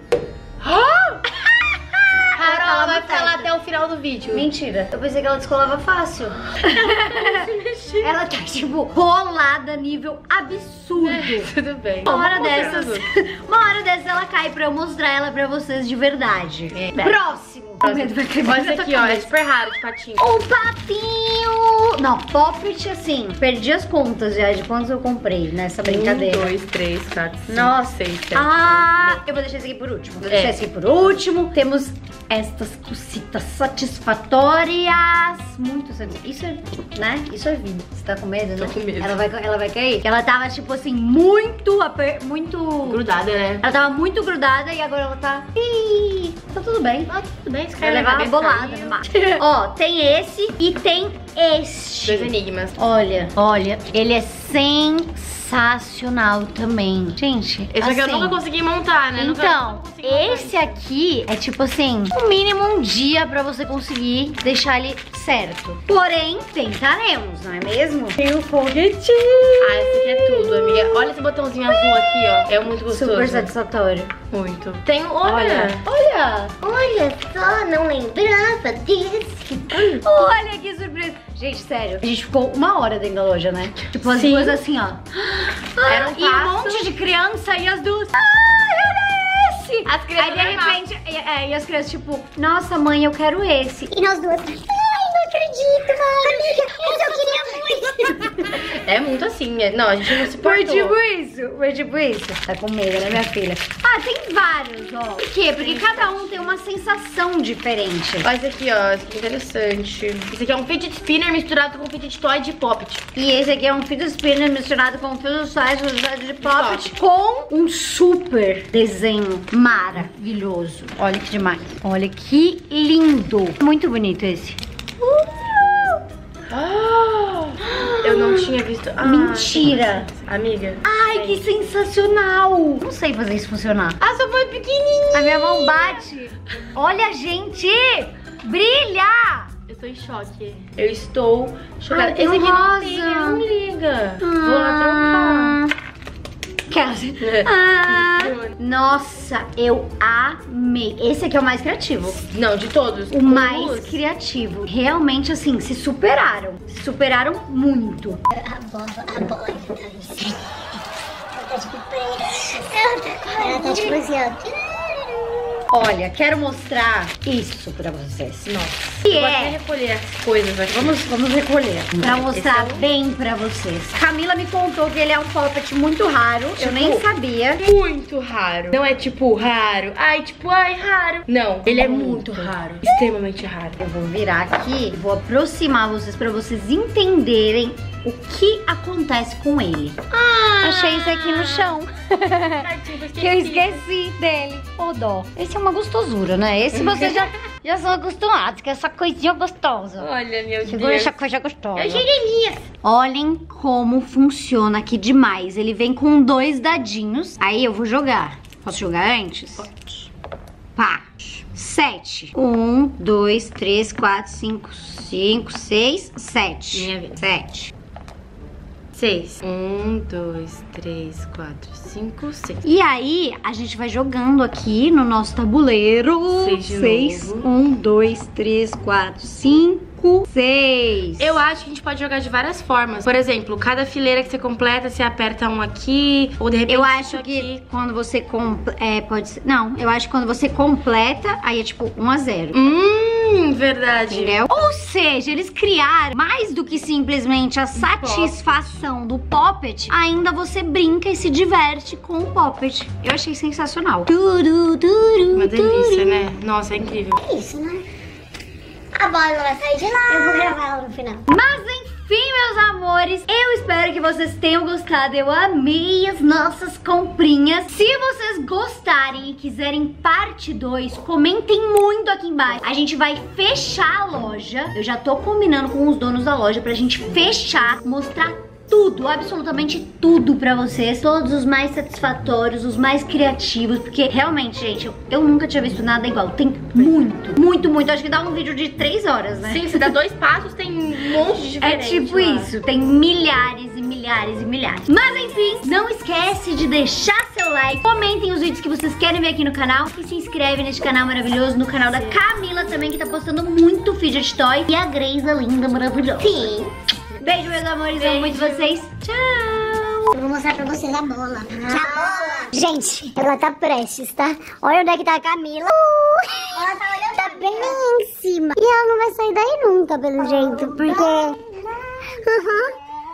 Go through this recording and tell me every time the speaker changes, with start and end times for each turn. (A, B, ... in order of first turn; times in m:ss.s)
0:00.6-0:03.5 A
0:02.3-0:04.5 B
0:04.3-0:07.5 A
0:06.6-0:08.1 B
0:08.0-0:11.5 A
0:11.0-0:13.0 B
0:12.1-0:19.3 A
0:16.7-0:17.2 B
0:17.8-0:20.2 B
0:20.2-0:26.5 A
0:25.8-0:29.2 B
0:27.5-0:43.0 A
0:30.2-0:30.6 B
0:38.6-0:39.2 B
0:42.8-0:43.7 B
0:43.6-0:47.1 A
0:47.1-0:49.4 B
0:47.8-0:58.4 A
0:52.0-0:52.8 B
0:57.7-1:00.8 B
0:59.2-1:11.0 A
1:08.2-1:09.0 B
1:09.6-1:13.5 B
1:11.7-1:14.1 A
1:14.3-1:15.9 B
1:15.2-1:16.5 A
1:16.6-1:19.7 C
1:19.7-1:20.0 B
1:19.9-1:34.0 A
1:24.0-1:24.6 B
1:25.8-1:26.9 B
1:29.8-1:30.8 B
1:33.9-1:38.3 C
1:36.6-1:38.6 A
1:38.5-1:41.0 B
1:40.2-1:48.3 A
1:45.5-1:46.5 B
1:48.2-1:53.0 B
1:53.1-2:04.6 A
1:56.4-1:56.9 B
2:05.2-2:06.0 A
2:06.5-2:11.7 B
2:07.6-2:10.1 A
2:10.8-2:14.0 A
2:14.0-2:16.0 B
2:15.1-2:19.5 A
2:19.7-2:25.6 B
2:21.9-2:23.4 A
2:24.2-2:25.7 A
2:26.7-2:32.2 A
2:27.2-2:28.5 B
2:32.3-2:34.0 B
2:33.1-2:38.2 A
2:38.3-2:40.6 C
2:41.3-2:45.4 C
2:43.4-2:44.0 A
2:45.7-2:48.5 A
2:48.4-2:51.0 B
2:49.0-2:49.6 A
2:50.7-2:57.6 A
2:52.0-2:52.8 B
2:56.6-2:57.0 B
2:57.6-3:03.8 B
3:01.7-3:02.5 A
3:03.8-3:10.0 A
3:10.1-3:11.8 B
3:10.6-3:20.1 A
3:12.6-3:13.8 B
3:16.7-3:17.3 B
3:20.0-3:21.2 B
3:20.6-3:22.1 A
3:21.7-3:22.6 B
3:22.8-3:29.9 A
3:30.8-3:37.7 A
3:36.7-3:37.2 B
3:38.9-3:42.6 B
3:42.6-3:51.3 A
3:46.3-3:47.5 B
3:51.2-3:57.5 B
3:56.7-4:02.6 A
4:02.5-4:04.4 B
4:04.1-4:16.3 A
4:07.7-4:08.4 B
4:15.3-4:17.2 B
4:17.2-4:17.8 C
4:18.9-4:21.2 C
4:21.3-4:49.9 A
4:49.4-4:52.5 B
4:51.6-5:06.6 A
5:06.2-5:06.7 C
5:07.2-5:10.1 A
5:07.9-5:08.7 B
5:10.1-5:21.4 C
5:22.1-5:22.7 C